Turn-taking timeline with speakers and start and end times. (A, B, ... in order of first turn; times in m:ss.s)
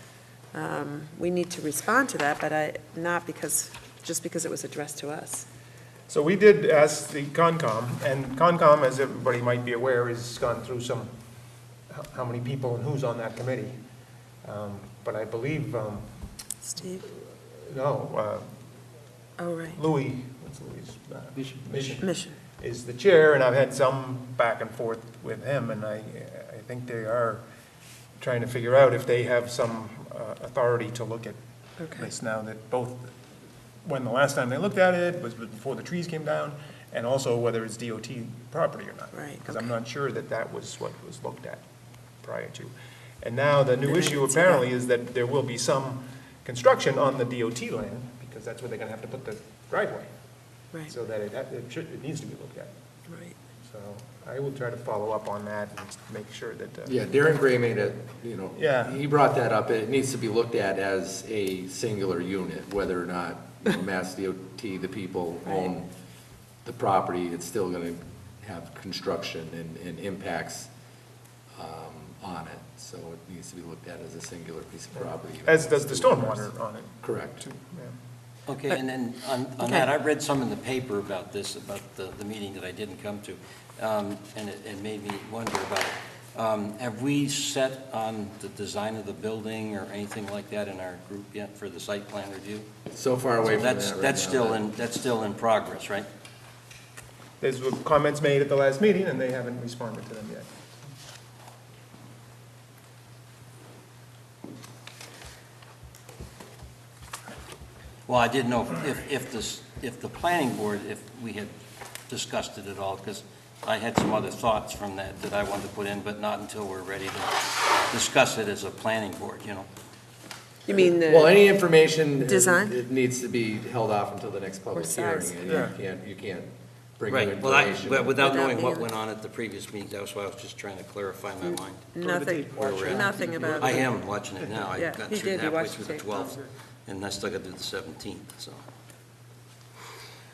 0:00.5-0:05.5 A
0:06.1-0:11.1 B
0:11.9-0:13.8 B
0:14.4-0:16.1 B
0:16.6-0:17.0 A
0:17.0-0:18.5 B
0:19.4-0:19.8 A
0:19.7-0:27.4 B
0:22.0-0:22.4 A
0:28.2-0:31.4 B
0:31.8-0:32.1 A
0:31.9-0:33.1 B
0:33.8-0:41.6 B
0:39.1-0:39.7 A
0:42.2-0:50.1 B
0:43.8-0:44.6 A
0:50.9-0:52.7 B
0:53.1-0:53.4 A
0:53.6-0:57.0 B
0:56.8-1:05.9 C
0:58.5-0:59.0 B
1:06.6-1:10.7 C
1:11.5-1:16.5 C
1:15.4-1:18.0 B
1:17.0-1:17.4 C
1:18.5-1:32.7 D
1:32.9-1:34.6 C
1:33.4-1:36.1 D
1:37.4-1:40.5 B
1:48.1-1:51.5 D
1:52.1-1:57.3 D
1:57.9-1:59.7 D
2:00.7-2:01.6 A
2:00.7-2:08.1 C
2:02.1-2:02.8 A
2:04.7-2:05.6 A
2:05.4-2:05.8 B
2:07.1-2:11.9 D
2:08.2-2:08.9 A
2:11.4-2:13.9 A
2:12.0-2:14.7 B
2:12.5-2:18.6 D
2:14.8-2:16.3 A